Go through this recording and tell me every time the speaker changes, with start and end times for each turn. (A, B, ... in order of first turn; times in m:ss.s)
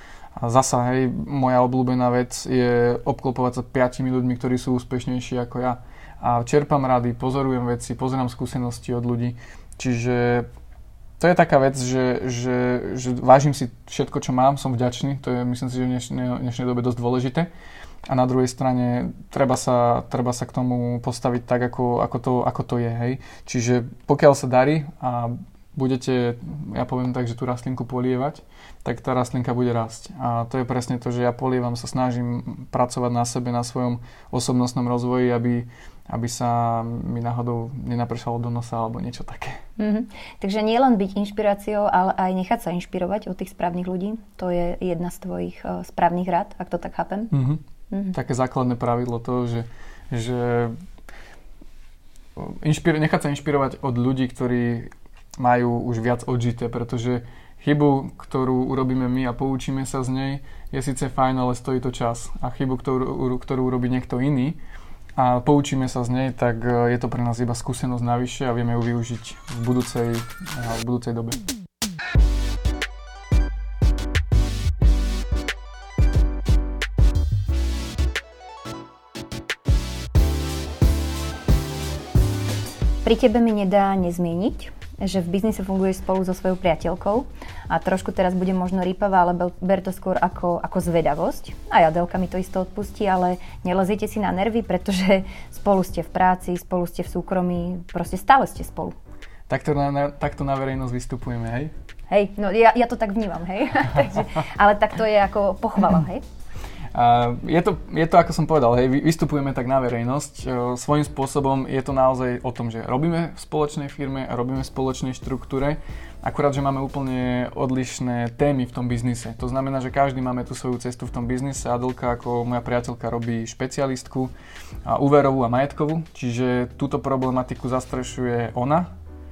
0:00.4-0:10.5 A
0:11.2-0:17.5 A
0:18.1-0:39.6 A
0:39.8-0:47.3 B
0:47.3-0:47.6 A
0:47.9-0:48.2 B
0:48.1-0:50.7 A
0:52.4-1:04.6 A
1:05.2-1:11.4 A
1:23.0-1:38.9 B
1:39.5-1:41.7 A
1:42.1-1:46.2 B
1:46.9-2:04.3 A
2:04.9-2:08.9 A